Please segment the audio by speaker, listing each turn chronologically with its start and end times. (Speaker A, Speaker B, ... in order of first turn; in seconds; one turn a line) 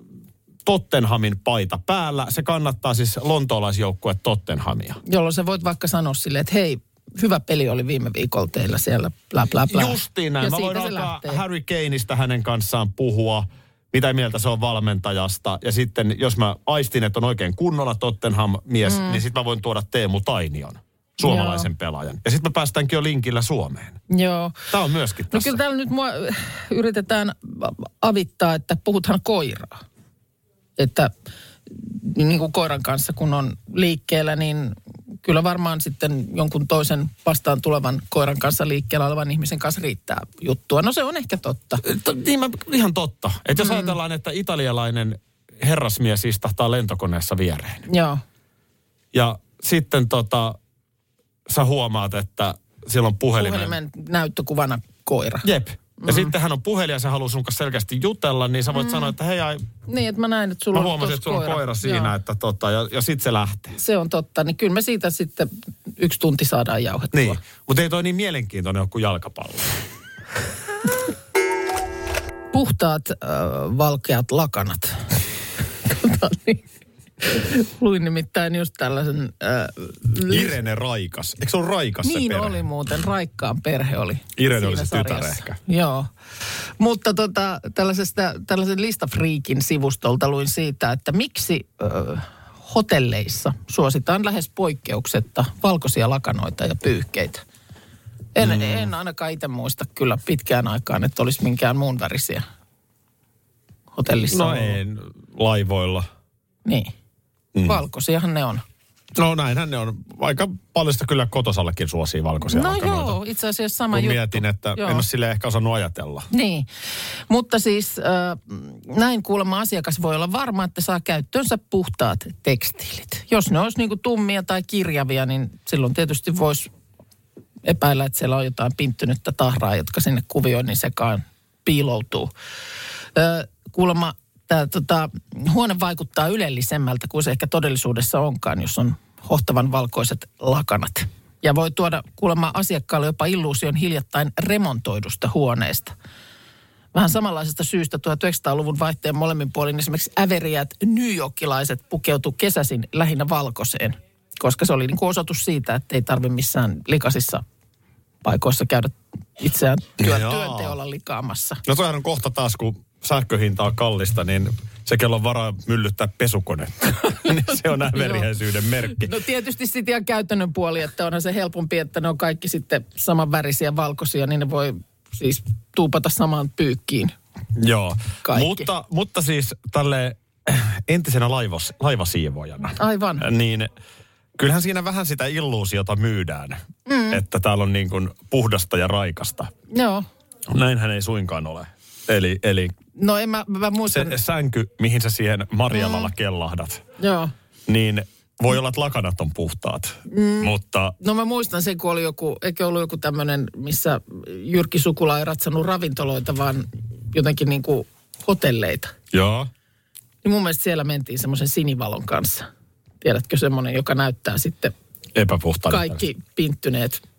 Speaker A: 0.7-5.0
Speaker B: 5.0-11.4
Speaker A: 9.7-24.0
Speaker B: 18.8-19.2
Speaker B: 21.2-21.7
Speaker B: 24.1-24.6
Speaker A: 24.7-25.6
Speaker B: 25.3-29.8
Speaker B: 30.8-31.1
Speaker B: 31.7-41.8
Speaker A: 41.8-47.8
Speaker B: 43.6-43.9
Speaker B: 47.9-48.2
Speaker A: 49.1-50.6
Speaker A: 51.5-53.8
Speaker B: 53.3-55.5
Speaker A: 55.4-59.6
Speaker B: 56.0-56.3
Speaker B: 58.7-59.1
Speaker B: 59.9-62.1
Speaker A: 60.7-63.8
Speaker B: 63.7-67.4
Speaker A: 67.1-69.7
Speaker B: 72.5-75.2
Speaker B: 75.8-76.6
Speaker B: 77.2-80.5
Speaker A: 80.3-82.6
Speaker B: 82.0-97.4
Speaker A: 84.3-85.6
Speaker B: 98.3-102.4
Speaker A: 98.4-98.9
Speaker B: 103.9-104.8
Speaker A: 104.3-106.1
Speaker B: 106.6-106.9
Speaker A: 107.5-107.8
Speaker B: 107.6-108.6
Speaker A: 109.1-113.2
Speaker B: 112.5-115.0
Speaker A: 113.9-116.3
Speaker B: 116.3-116.7
Speaker B: 117.3-126.7
Speaker B: 127.6-132.3
Speaker B: 133.1-145.9
Speaker B: 146.9-157.4
Speaker B: 158.2-161.6
Speaker A: 160.0-160.7
Speaker A: 161.6-169.1
Speaker B: 167.3-168.3
Speaker B: 168.8-177.1
Speaker A: 177.5-183.7
Speaker B: 178.2-178.7
Speaker B: 182.8-183.2
Speaker A: 184.4-189.5
Speaker B: 186.8-187.2
Speaker B: 189.7-190.1
Speaker A: 190.5-192.8
Speaker B: 192.9-194.2
Speaker A: 193.9-196.8
Speaker B: 195.7-196.1
Speaker B: 197.0-197.3
Speaker A: 197.7-200.9
Speaker B: 200.1-208.9
Speaker A: 209.1-209.5
Speaker B: 210.2-212.4
Speaker B: 213.0-214.7
Speaker A: 215.1-216.0
Speaker B: 215.7-217.0